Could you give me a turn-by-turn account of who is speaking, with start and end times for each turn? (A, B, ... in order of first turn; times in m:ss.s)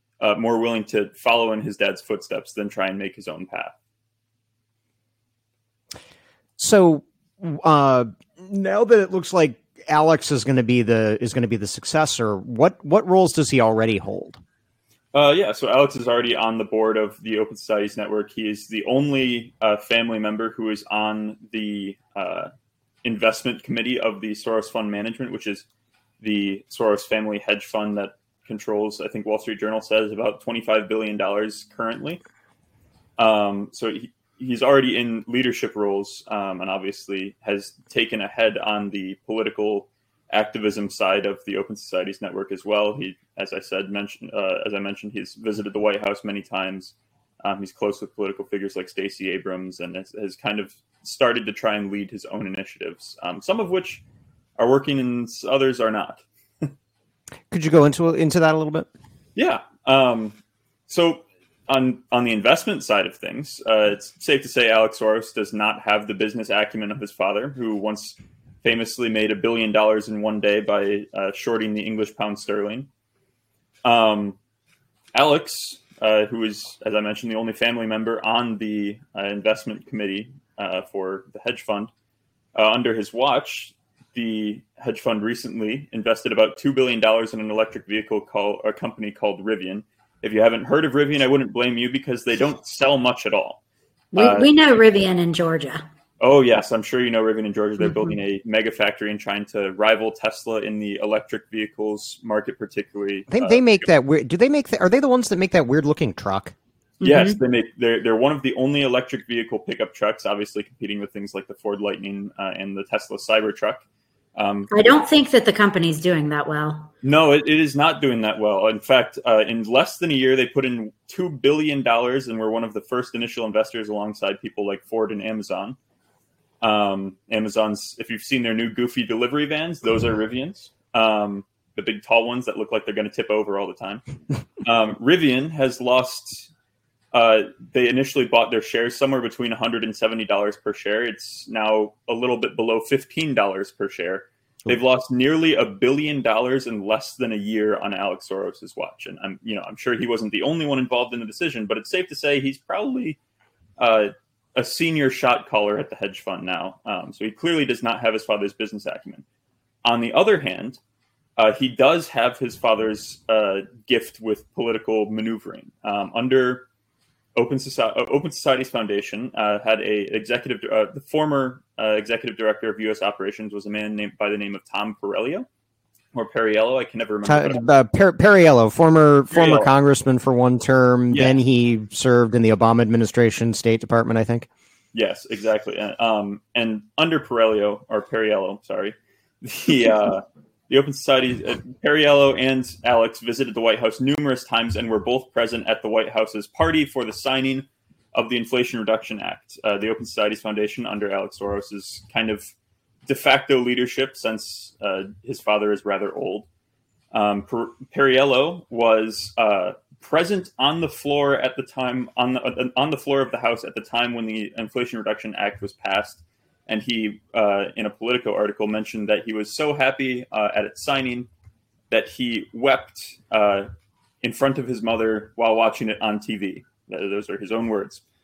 0:00.2-0:03.7 A
0:06.6-0:14.4 B
0:15.1-0:22.5 A
0:23.0-0:25.6 A
0:26.2-0:32.2 A
0:33.2-0:54.0 A
0:54.6-0:56.7 A
0:57.5-0:58.9 B
0:59.4-1:00.4 A
1:00.9-1:12.9 A
1:13.8-1:14.4 A
1:15.1-1:21.9 A
1:22.6-1:33.6 A
1:34.1-1:35.8 C
1:34.2-1:34.5 A
1:36.2-1:43.8 A
1:37.8-1:38.1 C
1:43.3-1:46.5 B
1:47.0-1:47.4 C
1:47.0-1:53.8 A
1:54.4-1:54.7 A
1:54.7-1:56.9 C
1:57.0-2:05.8 A
2:06.6-2:14.0 A
2:14.6-2:16.5 A
2:17.1-2:33.2 A
2:33.8-2:39.2 A
2:39.8-2:40.8 A
2:41.4-2:46.7 A
2:47.4-2:55.5 A
2:56.1-2:57.6 A
2:57.2-3:04.5 B
2:59.3-2:59.7 A
3:01.1-3:01.4 A
3:04.9-3:22.5 A
3:23.1-3:26.5 A
3:27.1-3:41.3 A
3:41.9-3:43.7 A
3:44.2-3:48.0 A